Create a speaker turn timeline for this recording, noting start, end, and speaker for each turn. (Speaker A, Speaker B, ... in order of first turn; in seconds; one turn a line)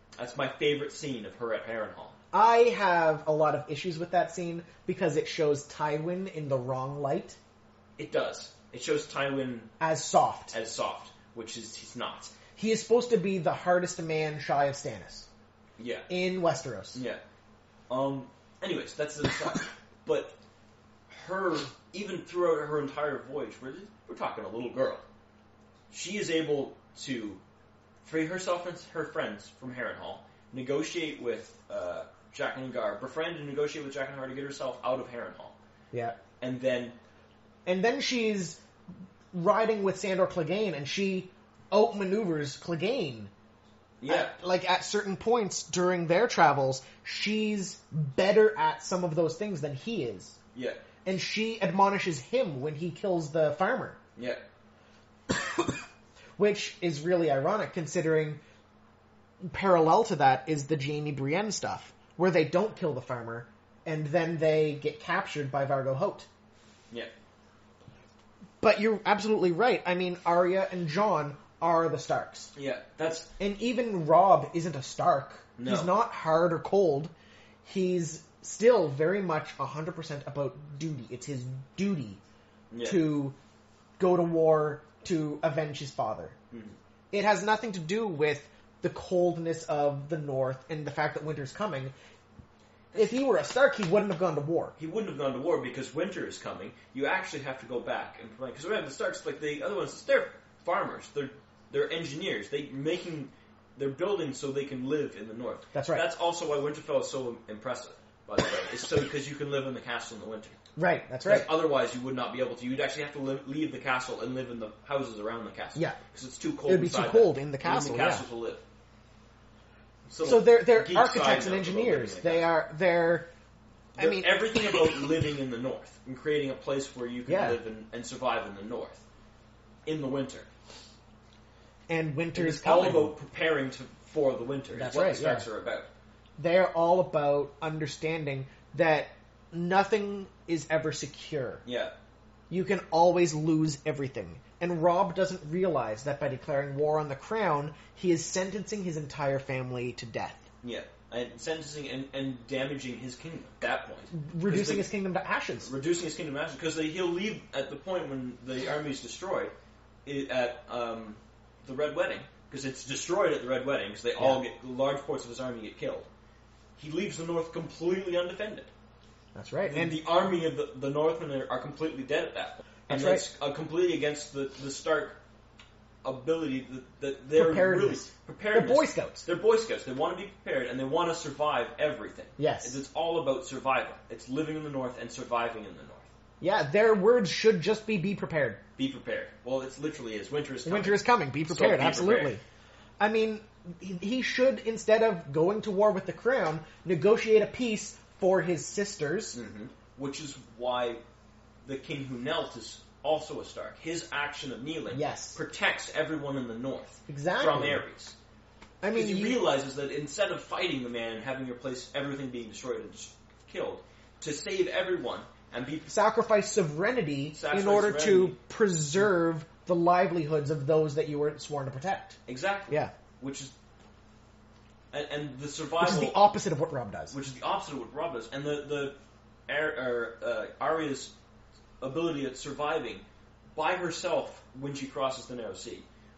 Speaker A: 0.2-2.1
Speaker B: 2.3-7.4
Speaker A: 8.0-9.7
Speaker B: 9.8-10.5
Speaker A: 10.5-12.3
Speaker B: 12.6-15.3
Speaker A: 15.8-16.1
Speaker B: 16.1-17.0
Speaker A: 16.9-17.2
Speaker A: 17.9-20.3
Speaker A: 21.1-25.0
Speaker A: 25.9-27.4
Speaker A: 28.0-35.5
Speaker B: 35.9-36.2
Speaker A: 36.4-37.0
Speaker B: 37.6-38.6
Speaker B: 39.3-43.3
Speaker A: 44.0-44.4
Speaker B: 44.1-50.4
Speaker A: 50.5-50.8
Speaker B: 51.0-54.0
Speaker A: 54.2-54.4
Speaker B: 55.3-55.8
Speaker B: 56.4-58.4
Speaker B: 59.4-66.3
Speaker B: 68.6-72.5
Speaker A: 72.5-73.3
Speaker B: 73.4-77.1
Speaker A: 75.6-75.9
Speaker B: 77.6-82.2
Speaker A: 82.7-83.1
Speaker B: 82.8-83.4
Speaker B: 84.0-86.3
Speaker A: 86.5-86.8
Speaker B: 87.1-91.9
Speaker A: 92.9-93.2
Speaker B: 93.0-94.7
Speaker A: 94.8-110.6
Speaker B: 105.7-106.0
Speaker B: 110.8-111.5
Speaker A: 111.2-118.6
Speaker B: 115.7-116.0
Speaker B: 116.6-118.2
Speaker A: 120.1-122.5
Speaker B: 120.2-123.3
Speaker A: 123.9-129.0
Speaker B: 124.0-125.0
Speaker B: 127.2-127.6
Speaker A: 129.8-130.5
Speaker B: 131.9-133.1
Speaker A: 132.3-135.9
Speaker B: 134.7-135.4
Speaker B: 136.4-141.6
Speaker A: 141.6-141.9
Speaker B: 142.5-150.4
Speaker A: 150.6-154.9
Speaker B: 154.1-155.7
Speaker A: 155.6-159.5
Speaker A: 160.0-166.1
Speaker A: 166.8-168.7
Speaker B: 169.3-170.0
Speaker A: 169.6-175.2
Speaker B: 172.9-173.2
Speaker A: 176.0-186.1
Speaker B: 177.3-179.2
Speaker B: 182.4-182.8
Speaker B: 186.4-188.6
Speaker A: 188.8-192.4
Speaker B: 190.6-192.4
Speaker B: 193.0-199.4
Speaker A: 199.3-201.0
Speaker A: 201.6-208.1
Speaker B: 204.9-205.4
Speaker B: 207.1-207.8
Speaker B: 208.8-209.4
Speaker A: 208.9-215.9
Speaker B: 215.9-222.2
Speaker A: 217.3-218.4
Speaker A: 222.3-223.5
Speaker A: 224.9-226.2
Speaker B: 225.8-227.1
Speaker A: 227.1-228.9
Speaker A: 229.5-231.1
Speaker A: 231.8-233.0
Speaker A: 233.5-235.8